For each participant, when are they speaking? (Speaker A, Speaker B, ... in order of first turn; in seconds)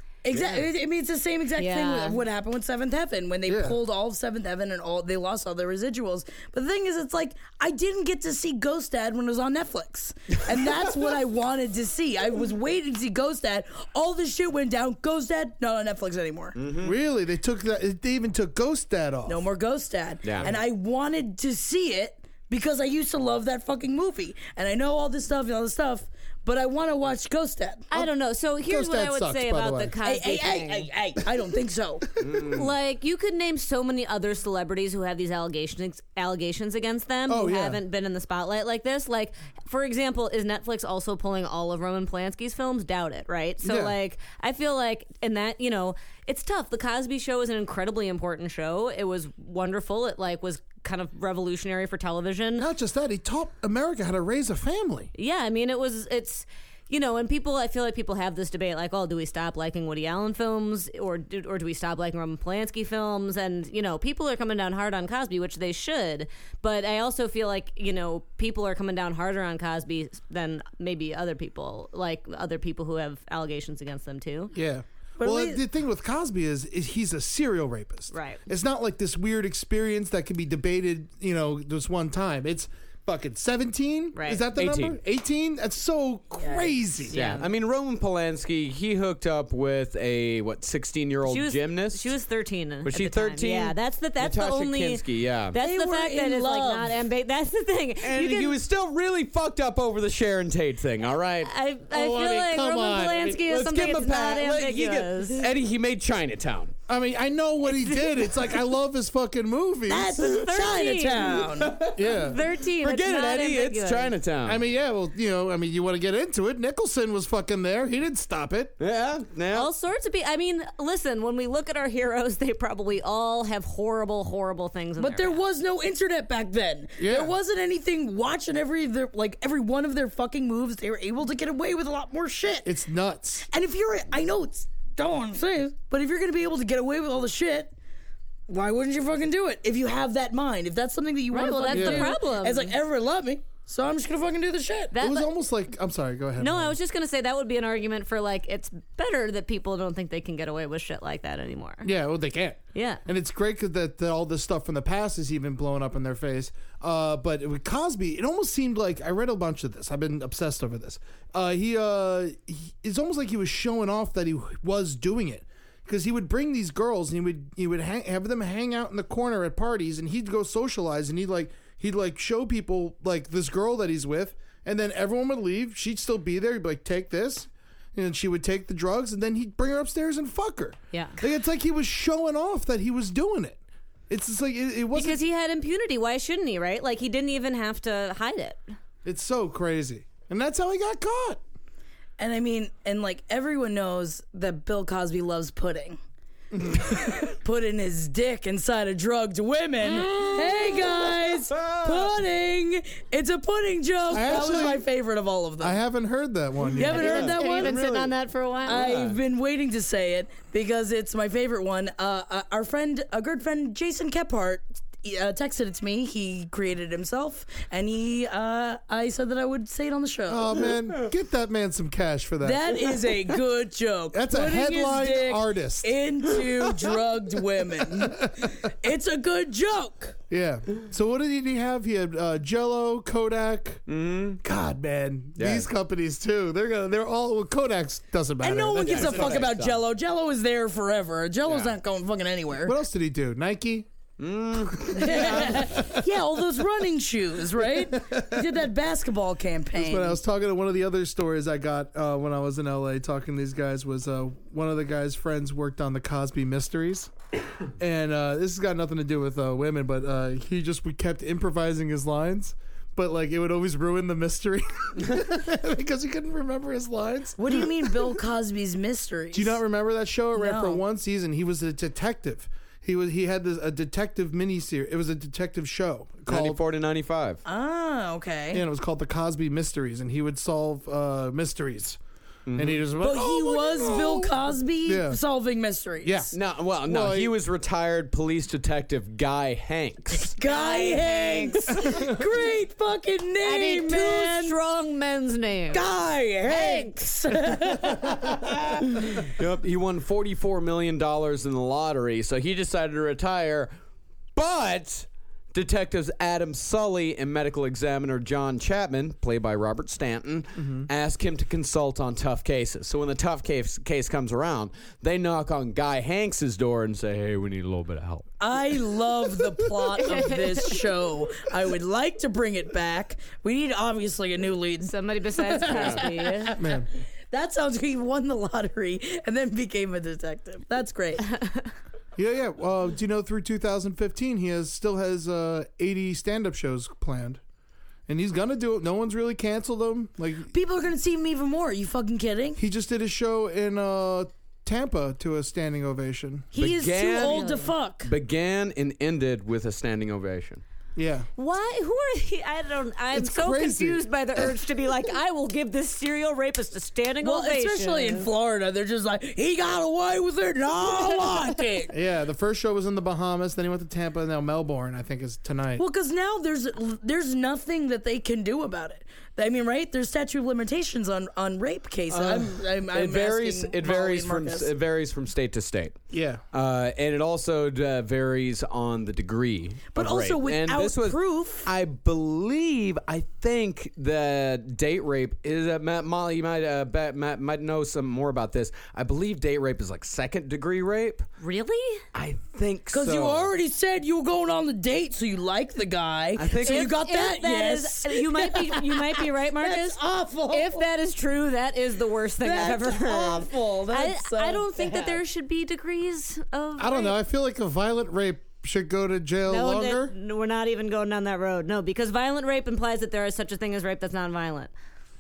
Speaker A: 0.2-16.6, 19.3-27.9, 30.0-32.1, 75.2-75.6, 86.3-86.8, 95.6-97.0, 109.9-111.8, 125.0-132.7, 133.5-137.7, 138.5-144.9, 192.2-196.0, 196.8-205.8, 206.7-208.0, 208.6-220.6, 222.4-230.2, 238.4-242.8, 245.0-250.2, 267.4-269.6, 270.3-270.8, 277.4-278.6, 283.0-286.3, 290.2-294.6, 295.7-298.2, 318.4-326.7, 327.3-331.3, 340.5-342.6, 346.5-348.1, 357.2-361.9, 365.8-374.7, 379.9-381.7, 392.9-400.8, 402.4-405.2
Speaker B: 0.3-0.7, 16.6-16.9, 20.2-20.5, 32.2-32.7, 84.5-85.0, 87.1-92.1, 92.8-95.6, 98.0-102.4, 103.0-106.7, 111.2-112.1, 112.8-114.6, 118.8-119.7, 200.7-202.2, 207.6-208.0, 208.7-209.2, 233.9-234.4, 235.4-235.7, 238.8-239.8, 241.4-241.8, 244.2-245.7, 276.3-277.4, 282.5-282.8, 286.3-290.4, 298.2-303.7, 304.4-318.3, 325.7-326.0, 346.6-347.5, 348.0-350.6, 372.1-376.0, 376.5-391.3, 392.1-393.5, 396.4-396.9
Speaker C: 1.6-2.2, 27.9-30.9, 32.5-52.7, 55.1-74.5, 78.1-78.4, 84.1-84.4, 87.1-87.5, 91.2-98.6, 101.4-105.5, 107.7-108.1, 110.2-111.4, 112.1-114.1, 119.5-125.4, 141.3-142.7, 144.9-145.3, 146.4-151.9, 152.7-153.0, 180.9-181.2, 184.9-188.6, 206.9-208.9, 290.4-292.1, 293.4-295.8, 296.4-296.9, 320.0-320.8, 324.9-326.5, 331.3-331.7, 347.2-347.7, 351.4-358.3, 391.4-392.0, 396.6-407.2, 409.5-414.7
Speaker D: 3.5-3.8, 16.8-19.4, 28.6-29.9, 37.3-37.8, 43.6-43.9, 52.6-55.1, 74.5-87.2, 102.0-103.3, 106.9-110.2, 111.9-112.4, 114.4-118.7, 127.0-127.3, 132.6-133.5, 141.7-142.1, 145.0-146.8, 151.8-183.6, 184.1-185.2, 189.0-191.4, 196.5-196.9, 204.1-204.8, 205.6-207.4, 220.3-222.8, 224.1-225.9, 227.9-228.5, 230.3-233.8, 234.4-239.5, 242.6-243.9, 244.7-246.2, 247.6-248.5, 249.7-257.1, 257.8-267.7, 269.3-276.6, 278.5-282.0, 282.5-285.2, 286.0-287.4, 310.6-310.9, 326.6-326.9, 332.1-337.4, 338.1-340.5, 342.6-346.6, 350.9-351.3, 353.1-354.5, 361.9-365.8, 376.1-376.4, 406.8-410.1